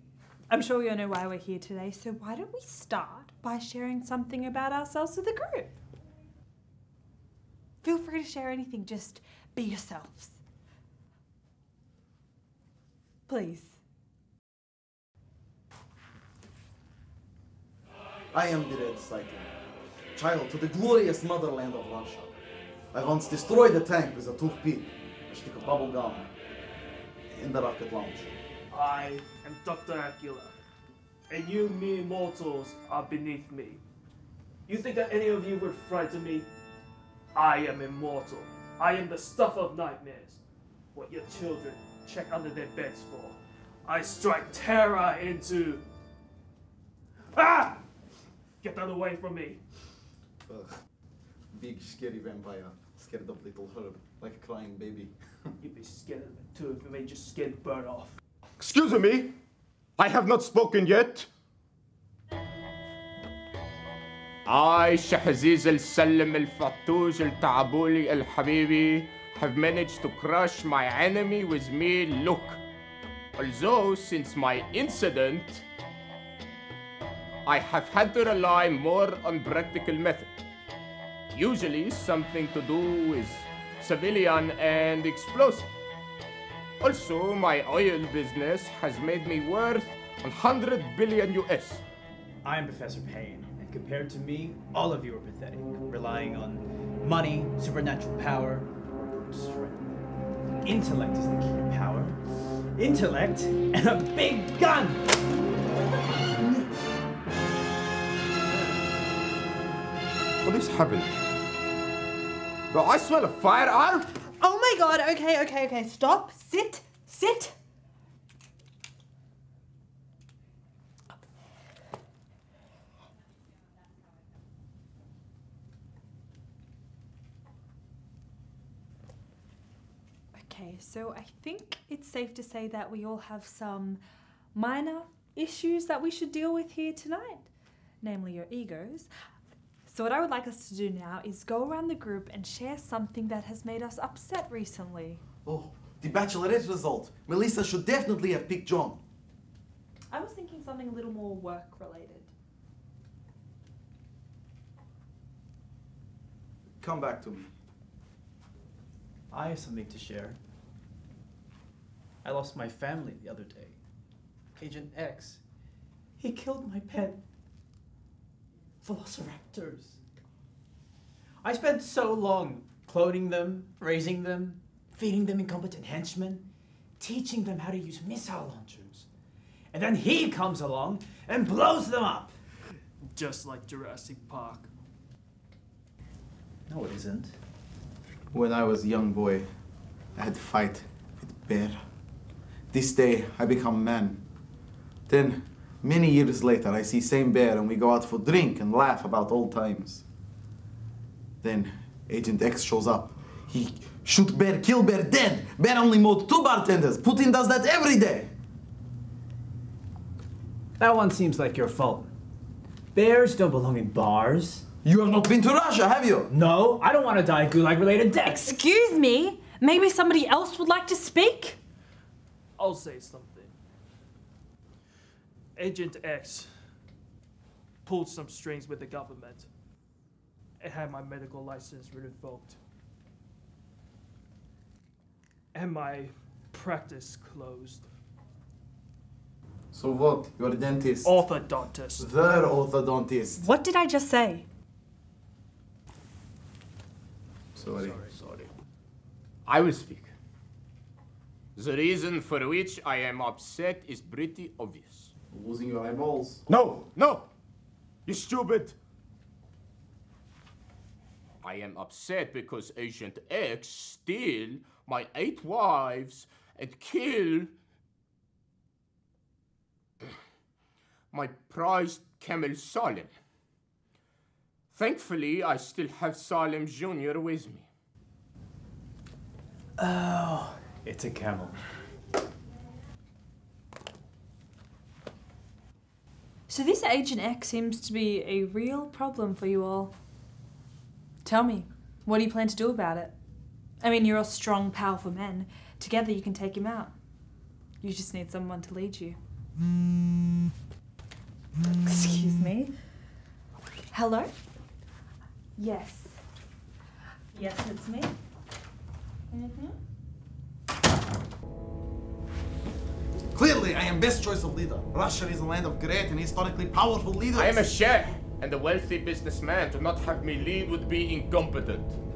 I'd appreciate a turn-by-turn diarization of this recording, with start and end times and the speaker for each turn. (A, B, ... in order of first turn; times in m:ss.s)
0:00.5-0:05.7 A
0:07.8-0:10.4 A
0:13.3-0:13.8 A
0:18.3-0:19.5 B
0:20.1-0:22.3 B
0:22.9-0:26.3 B
0:27.3-0:28.3 B
0:28.7-0:30.6 C
0:31.3-0:33.8 C
0:34.7-0:36.5 C
0:37.3-0:40.4 C
0:40.9-0:45.8 C
0:47.3-0:47.8 C
0:48.6-0:49.6 C
0:50.4-0:50.7 B
0:51.5-0:55.1 B
0:55.6-0:58.2 C
0:58.6-0:59.3 D
1:00.0-1:01.3 D
1:04.4-1:12.6 D
1:13.4-1:15.6 D
1:17.4-1:20.3 D
1:21.3-1:25.7 D
1:26.8-1:31.8 D
1:32.4-1:40.0 E
1:40.6-1:45.0 E
1:50.4-1:51.1 D
1:52.7-1:54.1 D
1:54.2-1:57.6 A
2:10.3-2:14.0 A
2:14.5-2:17.5 A
2:18.0-2:19.1 A
2:19.8-2:25.2 A
2:25.4-2:29.0 B
2:30.1-2:32.3 A
2:36.8-2:37.5 B
2:39.3-2:40.4 E
2:42.2-2:43.8 E
2:44.6-2:45.4 E
2:46.2-2:47.2 E
2:48.8-2:50.0 E
2:51.4-2:56.5 E
2:57.0-2:59.1 E
2:59.7-3:02.3 E
3:03.0-3:04.7 C
3:06.7-3:07.4 E
3:08.3-3:09.4 B
3:10.2-3:11.8 B
3:12.7-3:14.2 B
3:15.1-3:20.0 B
3:21.4-3:28.3 B
3:30.8-3:32.1 E
3:32.9-3:34.6 E
3:34.8-3:36.3 B
3:36.3-3:38.6 E
3:38.2-3:41.6 A
3:42.6-3:43.5 C
3:45.6-3:46.5 C
3:47.8-3:49.5 C
3:50.6-3:52.6 C
3:55.5-3:57.8 C
3:59.7-4:01.2 B
4:01.0-4:02.1 C
4:02.0-4:03.4 B
4:03.4-4:04.4 A
4:07.5-4:08.0 B
4:07.6-4:08.5 C
4:09.4-4:10.1 D
4:11.6-4:15.1 D
4:15.3-4:16.4 B
4:16.5-4:17.3 D
4:18.0-4:18.8 D
4:21.4-4:27.5 D
4:31.1-4:33.1 D
4:34.7-4:37.6 D
4:39.8-4:41.6 E
4:46.5-4:49.9 A
4:51.2-4:53.1 A
4:53.8-4:56.9 A
4:57.8-4:59.2 A
5:01.8-5:02.7 A
5:03.9-5:04.3 A
5:05.6-5:06.2 A
5:07.3-5:08.1 A
5:09.3-5:09.8 A
5:13.3-5:17.6 B
5:17.3-5:22.0 D